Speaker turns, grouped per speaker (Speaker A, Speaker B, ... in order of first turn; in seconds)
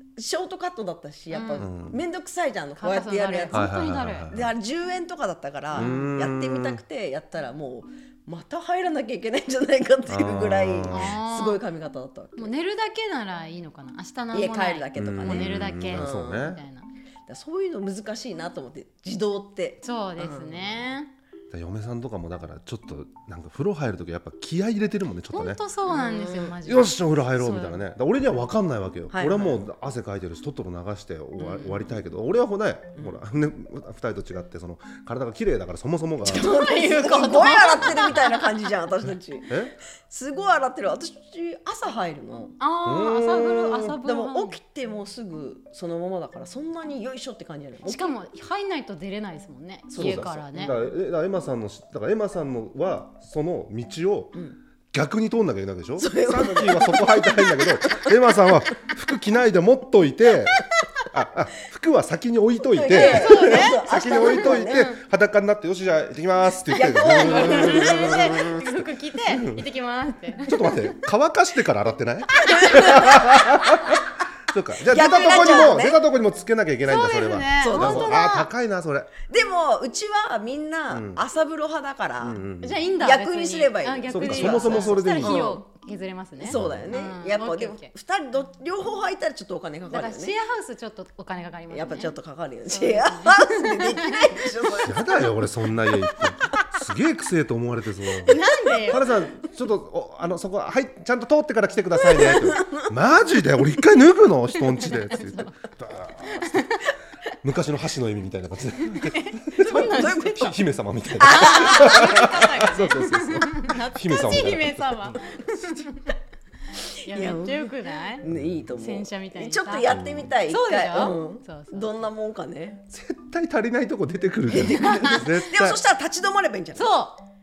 Speaker A: 0.2-3.7, 4.3-12.5, 14.3-16.5, 17.3-20.6, 25.9-26.6, 29.1-29.6, 31.5-31.8, 36.2-42.6, 44.0-48.1, 50.0-50.3, 56.0-58.4, 62.6-64.9, 66.7-68.5, 72.4-73.8, 74.8-76.0, 77.6-78.5, 79.3-82.4, 83.0-85.7, 86.4-90.3, 91.7-95.3, 102.0-102.8, 109.6-110.6, 111.2-112.9, 117.0-122.8, 124.5-126.9
Speaker B: 1.3-1.7, 2.8-4.3, 5.7-6.1, 10.9-11.6, 12.4-16.9, 19.8-21.1, 25.3-27.8, 36.3-38.7, 42.6-44.6, 47.8-50.8, 62.9-64.9, 66.7-70.9, 72.4-73.2, 75.3-75.7, 76.8-78.5, 82.6-87.9, 89.9-92.1, 92.7-94.5, 98.2-99.2, 104.5-105.7, 106.2-106.8, 108.9-110.5, 111.2-116.2, 116.9-122.1, 124.6-125.3, 126.8-127.2
Speaker C: 1.6-2.0, 3.5-4.5, 5.7-6.8, 10.1-11.1, 15.0-16.6, 21.5-25.6, 26.6-36.6, 39.5-39.8, 42.8-44.0, 49.9-54.4, 54.9-69.7, 70.5-79.1, 80.9-81.2, 82.2-82.8, 84.1-85.5, 86.5-86.9, 94.8-106.6, 107.4-115.2, 118.2-118.6, 119.9-120.3, 122.9-125.8